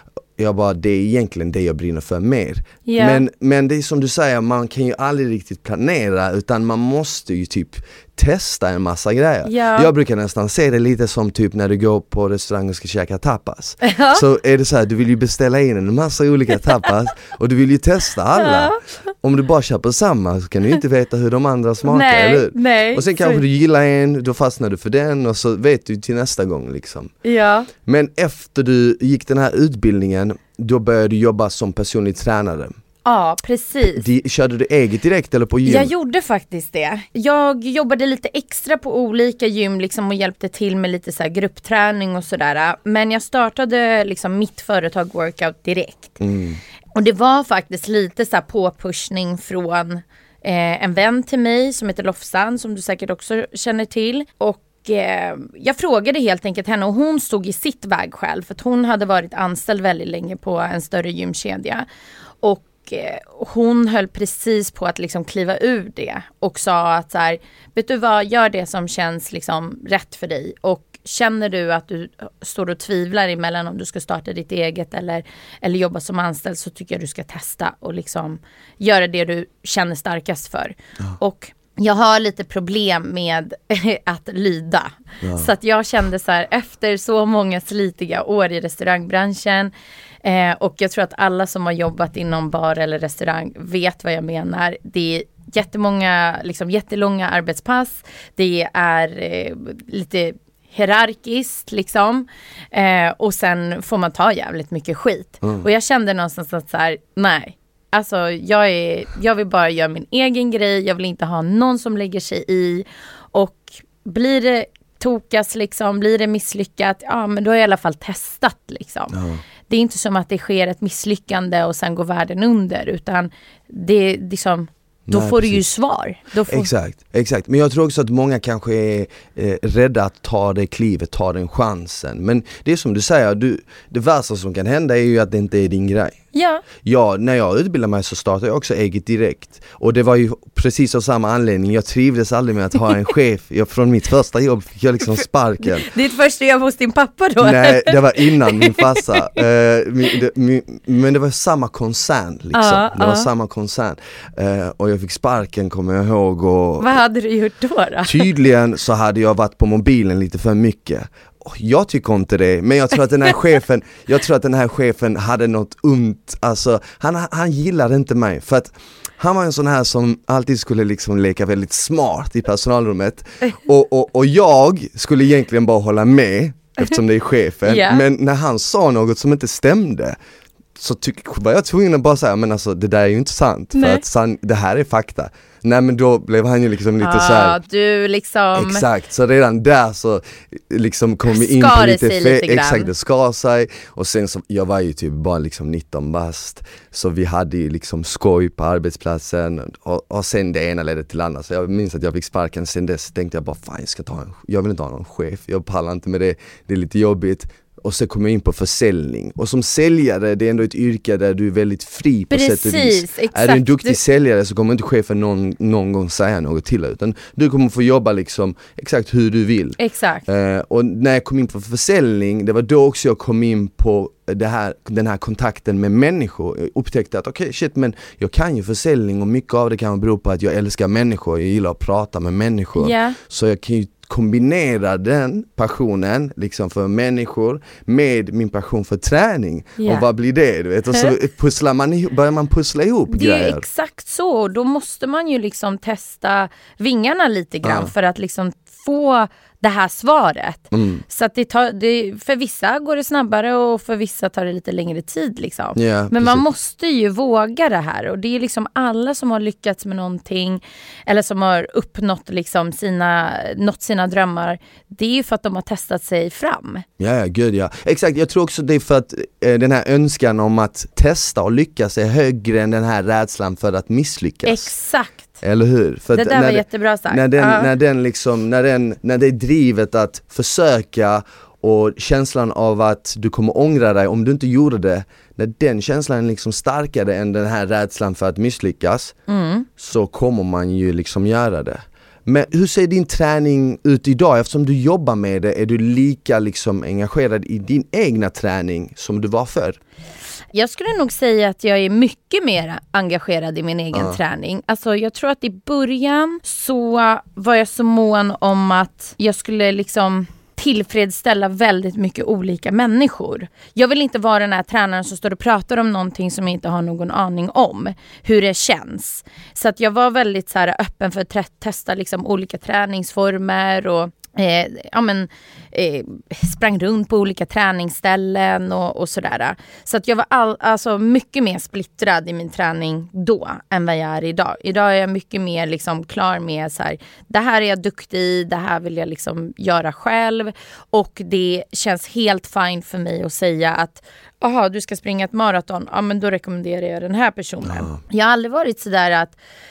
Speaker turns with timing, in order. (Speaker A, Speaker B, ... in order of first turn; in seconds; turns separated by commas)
Speaker A: 0.4-27.1, Speaker B: 2.8-3.2, Speaker B: 9.4-9.9, Speaker B: 13.8-14.2, Speaker B: 18.3-18.8, Speaker B: 21.8-23.4, Speaker B: 27.2-27.7, Speaker A: 27.8-32.7, Speaker B: 33.0-34.0, Speaker A: 33.9-35.9, Speaker B: 35.6-46.2, Speaker A: 46.2-46.6, Speaker B: 46.9-61.8, Speaker B: 62.4-89.7, Speaker A: 85.2-85.5, Speaker B: 90.2-119.2, Speaker A: 119.1-119.4, Speaker B: 119.7-126.7, Speaker A: 125.1-125.6, Speaker A: 126.5-136.2, Speaker B: 136.3-136.6, Speaker A: 136.8-145.8, Speaker B: 145.6-149.4, Speaker A: 147.4-156.9, Speaker B: 152.5-153.3, Speaker B: 156.8-158.3, Speaker A: 158.0-180.2, Speaker B: 177.6-178.0, Speaker A: 180.8-187.6, Speaker B: 183.7-184.0, Speaker B: 187.0-188.8, Speaker A: 188.5-243.6, Speaker B: 191.3-192.9, Speaker B: 212.3-214.0, Speaker B: 219.8-220.2, Speaker B: 232.8-233.2, Speaker B: 239.8-240.1, Speaker B: 243.1-266.9, Speaker A: 247.6-247.9, Speaker A: 250.7-251.0, Speaker A: 255.8-256.4, Speaker A: 267.0-274.7, Speaker B: 274.4-275.4, Speaker A: 275.4-289.1, Speaker B: 276.1-277.7, Speaker B: 289.3-289.7, Speaker A: 289.8-299.8, Speaker B: 300.5-349.4, Speaker A: 303.9-304.2, Speaker A: 347.6-347.9